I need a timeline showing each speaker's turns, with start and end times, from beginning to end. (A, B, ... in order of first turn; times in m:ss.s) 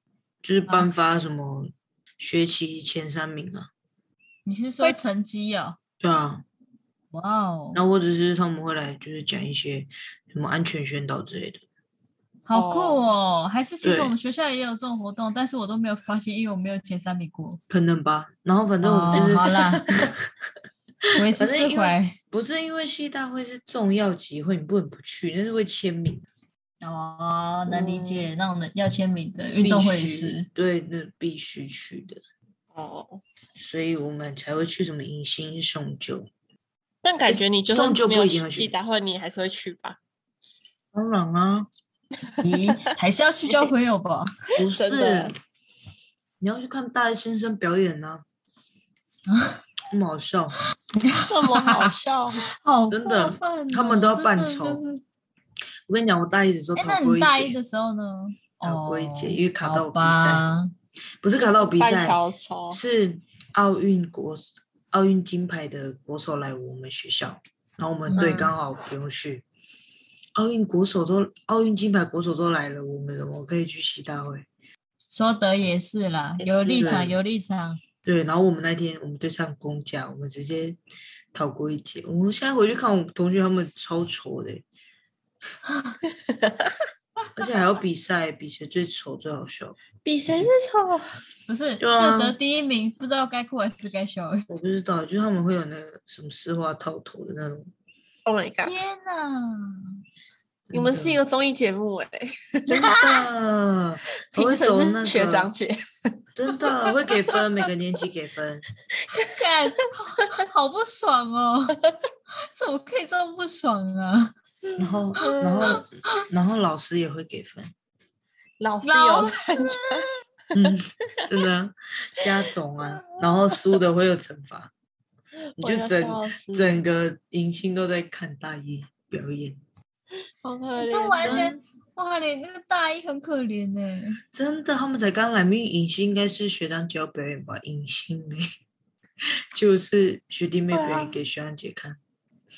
0:00.4-0:03.7 A
0:04.5-0:05.8 B
0:06.0-0:06.4 A
0:07.1-0:07.8 B
0:07.7-0:11.6 A
0:12.5-0:17.6 B
0:12.5-0:13.0 C
0:13.8-0:14.1 A
0:17.7-0:19.5 A
0:18.8-0:19.8 B
0:19.1-0:20.1 C
0:21.2-0:22.2 B
0:21.3-0:26.3 A
0:26.8-0:30.5 B
0:27.7-0:28.3 C
0:29.6-0:32.2 A
0:32.7-0:33.2 C
0:33.6-0:36.3 A
0:37.0-0:40.0 C
0:37.3-0:38.7 A
0:40.9-0:41.7 A
0:42.4-0:44.4 B
0:44.6-0:45.4 A
0:44.7-0:45.4 C
0:46.4-0:48.2 A
0:49.3-0:49.6 B
0:49.9-0:50.6 A
0:51.0-0:51.9 B
0:51.3-0:52.4 C
0:52.5-0:55.0 B
0:52.9-0:54.8 A
0:55.9-0:57.6 A
0:56.8-1:00.7 B
0:58.6-1:00.4 A
1:01.2-1:09.4 A
1:01.3-1:02.8 C
1:08.1-1:08.5 B
1:08.2-1:08.5 C
1:10.4-1:14.5 A
1:15.1-1:17.8 B
1:16.4-1:17.1 C
1:16.8-1:17.2 A
1:18.0-1:20.8 A
1:21.3-1:24.6 A
1:26.3-1:26.7 C
1:27.4-1:30.5 A
1:30.0-1:31.1 C
1:31.5-1:34.5 B
1:31.8-1:32.4 A
1:34.5-1:37.7 A
1:38.3-1:38.8 C
1:38.6-1:40.0 B
1:40.7-1:41.2 A
1:40.7-1:43.0 C
1:42.7-1:45.5 A
1:42.8-1:43.2 B
1:44.3-1:45.7 C
1:46.4-1:48.6 A
1:46.6-1:47.4 C
1:49.0-1:49.3 C
1:49.3-1:51.8 B
1:52.5-1:54.3 B
1:54.8-1:57.7 A
1:55.1-1:55.8 C
1:55.6-1:56.3 B
1:58.6-2:00.1 C
1:58.8-2:00.0 B
2:00.5-2:04.7 A
2:03.0-2:03.6 C
2:05.5-2:06.8 C
2:05.6-2:09.6 A
2:10.4-2:11.6 C
2:10.8-2:14.2 B
2:11.2-2:11.6 A
2:14.3-2:18.5 A
2:19.5-2:22.0 A
2:20.7-2:21.2 C